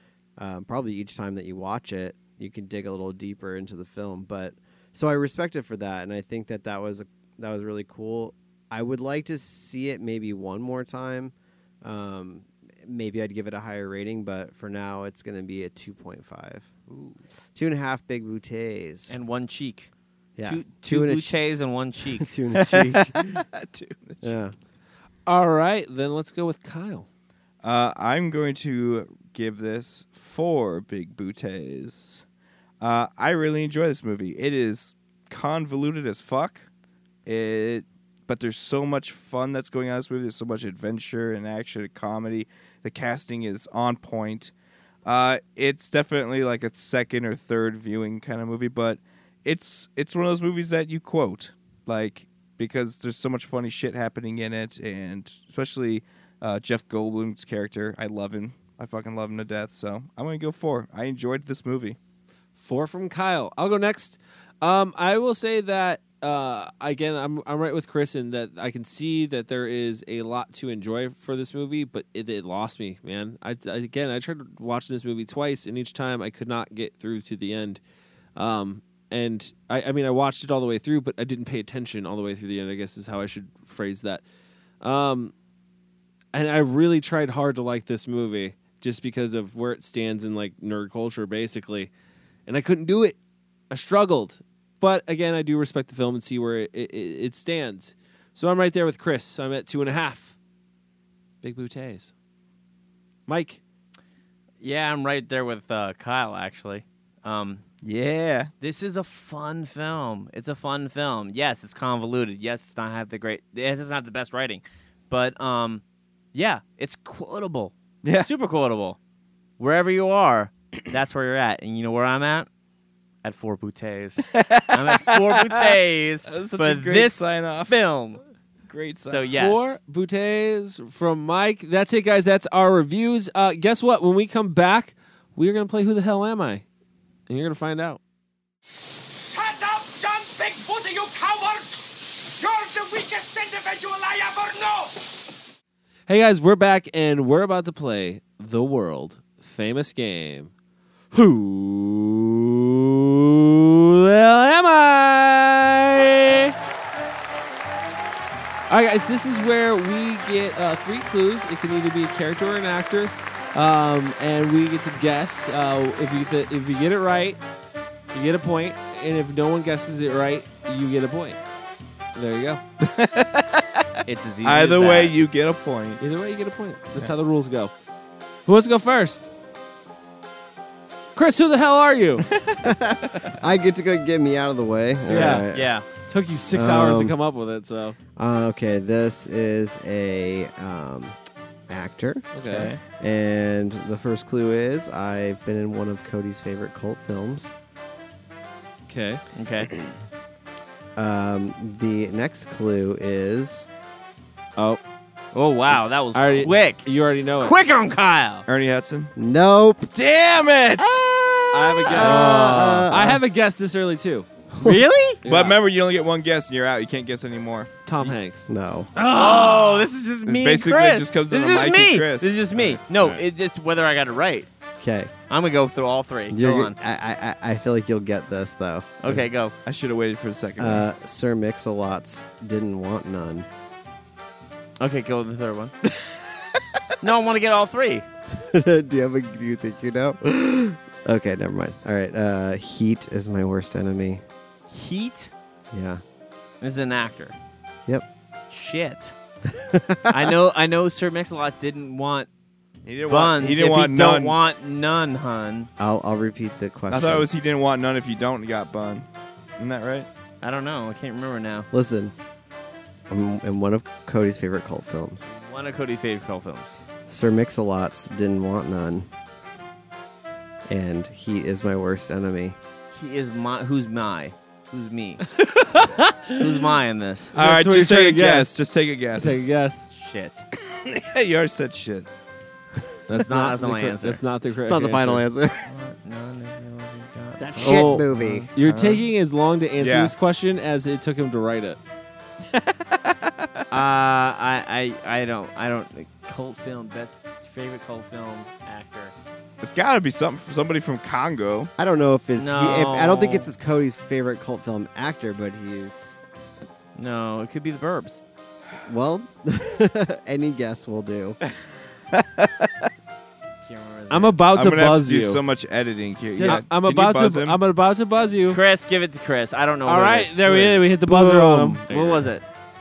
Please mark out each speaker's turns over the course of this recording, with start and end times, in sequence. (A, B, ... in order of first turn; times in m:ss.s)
0:00.4-0:16.7 A
0:16.9-0:17.2 B
0:17.5-0:19.1 A
0:19.1-0:19.9 B
0:20.4-0:21.4 A
0:20.4-0:22.3 B
0:22.2-0:23.4 A
0:22.6-0:24.3 C
0:24.2-0:24.5 A
0:25.2-0:27.0 D
0:27.6-0:32.2 C
0:32.8-0:36.7 C
0:37.2-0:44.5 C
0:45.0-1:02.0 C
1:02.6-1:17.8 D
1:18.4-1:24.2 D
1:24.8-1:25.3 D
1:26.3-1:31.9 D
1:32.5-1:33.2 D
1:33.7-1:40.3 D
1:41.4-1:42.1 D
1:43.3-1:43.6 D
1:44.6-1:47.6 B
1:47.8-1:48.5 C
1:48.6-1:55.8 B
1:56.3-1:59.0 B
1:58.0-1:58.3 C
1:59.6-2:02.5 B
2:03.2-2:08.2 B
2:04.3-2:05.7 C
2:06.3-2:07.8 C
2:08.6-2:09.4 C
2:09.0-2:09.8 B
2:09.3-2:16.6 D
2:17.3-2:18.0 D
2:19.0-2:25.2 E
2:26.1-2:30.5 D
2:31.1-2:36.5 D
2:38.7-2:47.4 D
2:48.1-2:51.4 D
2:52.1-2:52.6 D
2:52.8-2:53.9 C
2:54.0-2:55.2 B
2:54.4-2:56.0 C
2:56.0-2:57.7 D
2:58.4-2:59.3 D
3:01.1-3:02.2 D
3:02.4-3:03.3 C
3:02.6-3:05.7 A
3:05.1-3:08.0 D
3:05.5-3:05.8 B
3:06.5-3:07.2 A
3:08.2-3:11.2 A
3:11.7-3:12.3 A
3:12.3-3:12.7 D
3:12.4-3:12.8 B
3:13.0-3:17.5 A
3:18.9-3:19.2 D
3:19.3-3:19.7 B
3:21.0-3:23.7 A
3:25.3-3:26.9 B
3:26.1-3:27.5 D
3:27.4-3:28.4 B
3:28.5-3:29.1 C
3:29.1-3:29.9 A
3:29.9-3:32.8 C
3:30.8-3:31.3 A
3:31.5-3:34.3 D
3:31.8-3:33.2 A
3:32.0-3:32.4 B
3:34.5-3:34.8 A
3:34.6-3:35.2 B
3:35.2-3:35.6 D
3:35.2-3:38.2 C
3:37.8-3:39.9 D
3:38.5-3:38.9 A
3:39.1-3:44.5 B
3:40.2-3:42.4 C
3:42.5-3:43.2 D
3:44.8-3:45.1 A
3:45.3-3:46.8 B
3:46.3-3:49.2 A
3:49.0-3:49.5 B
3:49.6-3:50.8 C
3:50.6-3:53.5 A
3:54.8-3:55.7 B
3:57.0-3:58.0 B
3:58.3-4:04.2 A
4:04.7-4:05.3 B
4:05.7-4:06.0 A
4:06.6-4:07.4 B
4:08.5-4:09.1 B
4:09.5-4:10.2 A
4:10.1-4:12.3 B
4:12.8-4:14.4 C
4:13.1-4:15.7 B
4:15.8-4:17.4 A
4:16.9-4:19.1 C
4:19.6-4:20.1 C
4:20.4-4:21.7 B
4:21.7-4:22.1 A
4:23.1-4:25.3 A
4:25.3-4:26.7 B
4:27.1-4:29.1 A
4:30.7-4:32.6 A
4:32.9-4:35.2 B
4:35.3-4:36.4 D
4:36.4-4:37.3 B
4:37.3-4:39.9 D
4:37.3-4:39.4 C
4:39.9-4:40.4 B
4:40.8-4:42.1 C
4:43.1-4:45.2 D
4:43.1-4:44.2 B
4:44.6-4:45.7 A
4:45.7-4:48.5 B
4:47.4-4:49.0 A
4:47.6-4:51.8 D
4:49.8-4:50.1 C
4:52.6-4:53.1 C
4:53.7-4:59.1 B
4:59.6-5:01.7 C
5:01.8-5:06.1 A
5:02.4-5:03.5 B
5:07.0-5:08.2 B
5:08.8-5:11.4 A
5:12.1-5:12.9 C
5:13.6-5:14.4 B
5:14.1-5:15.4 D
5:14.5-5:17.6 C
5:16.3-5:16.6 B
5:16.4-5:18.6 D
5:18.5-5:20.7 B
5:19.8-5:22.3 D
5:21.0-5:21.8 A
5:21.9-5:22.4 B